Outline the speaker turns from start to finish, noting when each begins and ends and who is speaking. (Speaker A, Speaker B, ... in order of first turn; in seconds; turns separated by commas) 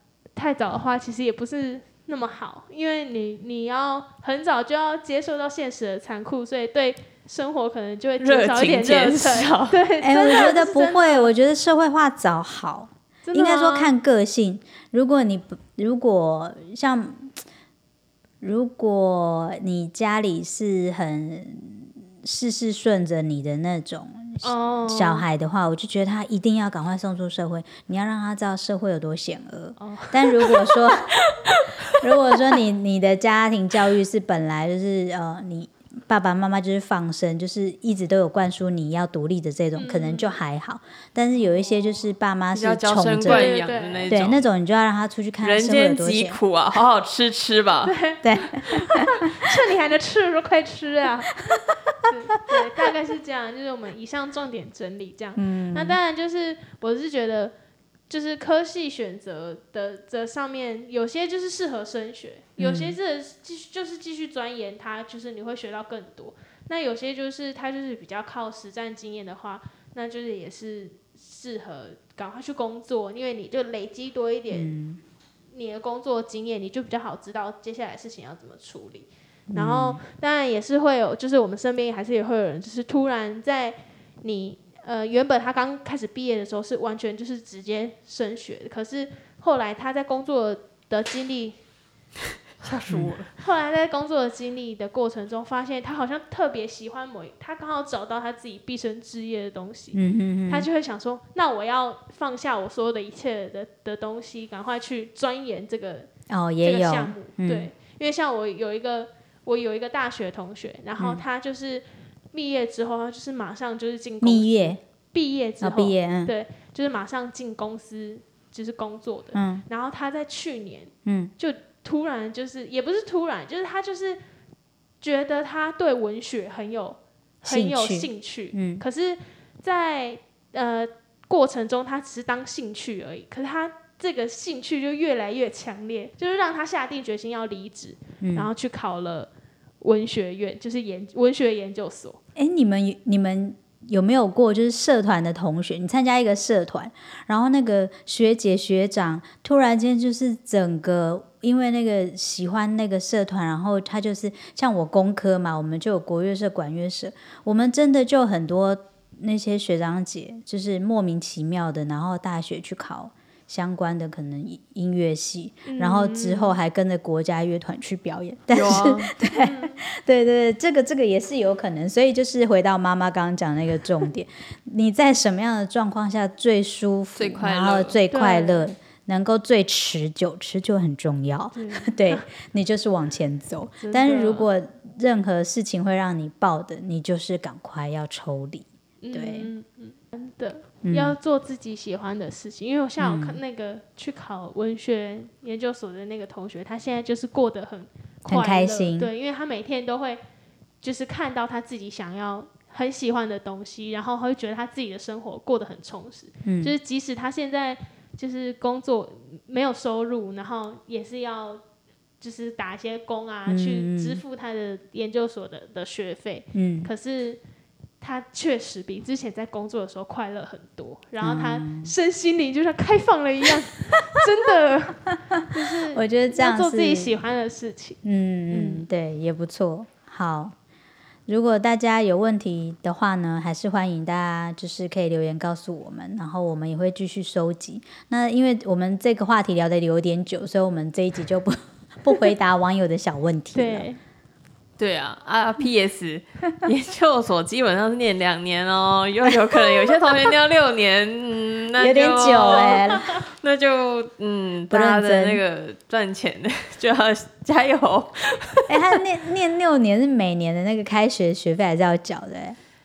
Speaker A: 0.3-11.3, Speaker B: 8.2-9.8, Speaker C: 10.0-17.3, Speaker A: 13.2-13.9, Speaker C: 18.4-31.1, Speaker A: 24.4-25.2, Speaker A: 29.8-30.3, Speaker C: 31.9-43.5, Speaker A: 39.7-40.4, Speaker B: 42.5-44.5, Speaker A: 43.2-44.2, Speaker C: 44.1-46.4, Speaker B: 45.4-47.9, Speaker A: 47.8-51.4, Speaker C: 48.2-49.0, Speaker A: 52.0-57.5, Speaker C: 55.3-56.0, Speaker A: 58.1-74.7, Speaker C: 62.6-63.0, Speaker C: 74.5-75.0, Speaker A: 75.5-91.6, Speaker C: 79.5-80.0, Speaker B: 92.6-93.3, Speaker A: 93.4-106.1, Speaker C: 99.9-100.7, Speaker C: 106.3-107.7, Speaker A: 106.6-124.2, Speaker C: 111.0-111.2, Speaker C: 114.2-114.8, Speaker C: 115.6-116.3, Speaker C: 119.3-119.6, Speaker C: 121.0-121.3, Speaker A: 125.0-142.2, Speaker C: 127.4-128.8, Speaker C: 138.2-138.5, Speaker C: 142.3-189.5, Speaker A: 165.6-166.6, Speaker B: 168.5-169.1, Speaker A: 169.3-169.8, Speaker B: 177.2-178.0, Speaker A: 178.1-178.7, Speaker A: 181.5-182.2, Speaker A: 183.8-184.5, Speaker A: 189.0-200.2, Speaker C: 190.8-191.2, Speaker C: 193.0-193.4, Speaker C: 198.2-199.1, Speaker A: 200.8-211.6, Speaker C: 206.4-206.7, Speaker A: 212.2-217.4, Speaker C: 213.4-214.2, Speaker C: 216.5-216.9, Speaker A: 218.0-228.8, Speaker C: 221.2-221.9, Speaker C: 225.9-227.2, Speaker C: 228.0-230.5, Speaker C: 231.3-243.9, Speaker A: 243.5-244.0, Speaker B: 244.8-259.0, Speaker C: 251.8-253.2, Speaker C: 254.7-255.4, Speaker C: 258.7-262.6